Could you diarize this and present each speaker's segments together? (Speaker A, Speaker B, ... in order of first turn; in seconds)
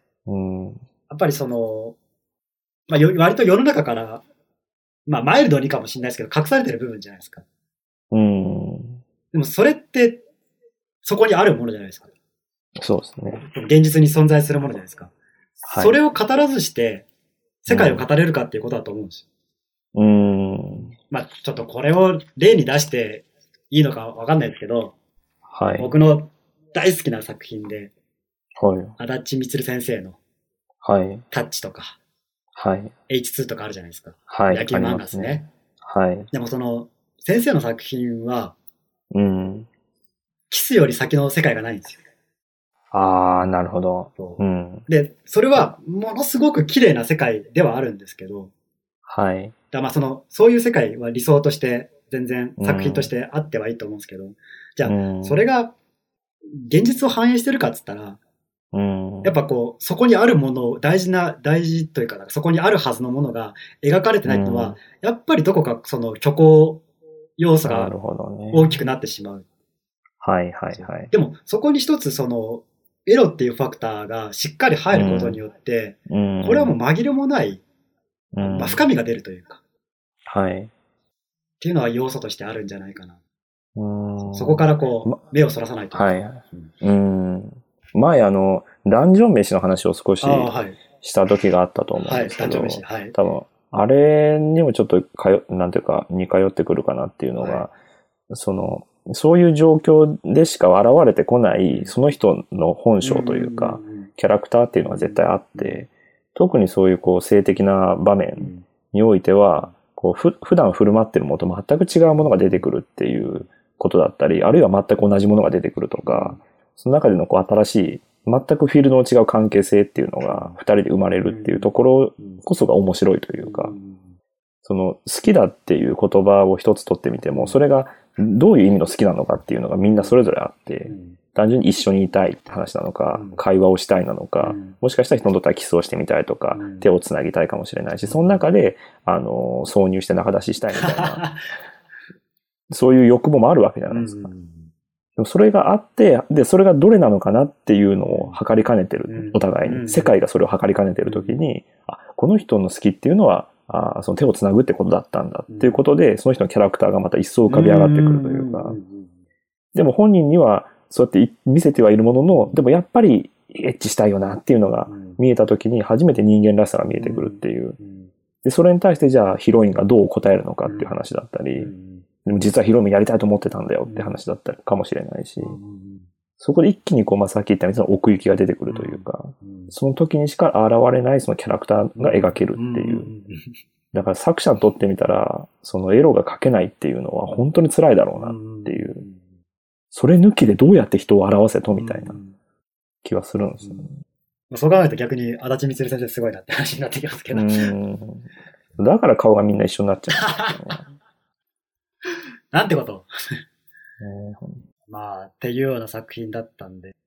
Speaker A: 0.3-0.8, 8.1-9.0, 12.8-13.4, 15.6-16.0, 17.7-18.1, 19.9-20.9, 25.5-25.9, 28.6-28.9, 30.8-31.2, 32.5-32.9, 34.3-36.3, 39.1-39.7, 42.9-44.9, 49.1-49.5, 52.6-53.1, 54.9-55.4, 58.7-59.4, 64.2-64.8, 67.6-68.8, 70.2-71.1, 74.9-75.4, 76.1-76.7, 78.3-78.9, 80.3-80.7, 83.8-85.2, 85.9-97.7, 98.3-123.7, 124.6-141.2, 142.7-144.3, 145.2-158.8, 159.7-167.8, 168.4-171.7, 172.2-175.6, 176.4-183.1, 183.9-189.0, 189.9-192.2, 193.0-194.0, 197.3-200.8, 204.0-204.6
Speaker B: 1.1-2.0, 2.9-4.2, 5.1-7.5, 9.3-10.2, 11.0-12.1, 13.4-15.1, 15.7-17.1, 17.6-19.2, 20.8-24.9, 25.8-27.9, 29.0-30.2, 31.3-32.0, 33.1-35.5, 36.3-38.5, 40.5-42.0, 44.2-48.5, 49.7-55.8, 56.5-58.2, 59.2-66.8, 67.4-67.9, 68.5-69.5, 70.8-77.6, 78.4-79.6, 81.6-83.2, 84.2-86.7, 90.2-90.8, 92.0-93.1, 97.4-97.7, 103.0-104.1, 104.9-105.8, 108.4-108.7, 116.1-116.4, 120.3-120.6, 121.3-122.4, 123.4-124.0, 127.3-127.6, 130.9-131.2, 133.1-133.4, 134.4-134.8, 136.5-136.9, 138.0-138.4, 140.8-141.4, 143.9-144.7, 148.1-148.4, 149.1-150.2, 151.1-151.4, 155.5-155.8, 157.5-159.1, 162.3-162.6, 164.9-165.2, 167.0-168.1, 170.7-170.9, 171.6-172.1, 173.9-174.2, 175.4-176.1, 178.7-179.7, 182.0-183.4, 188.2-189.2, 191.8-192.4, 193.6-193.9, 194.5-197.7, 200.2-200.8, 202.5-203.1, 204.9-206.9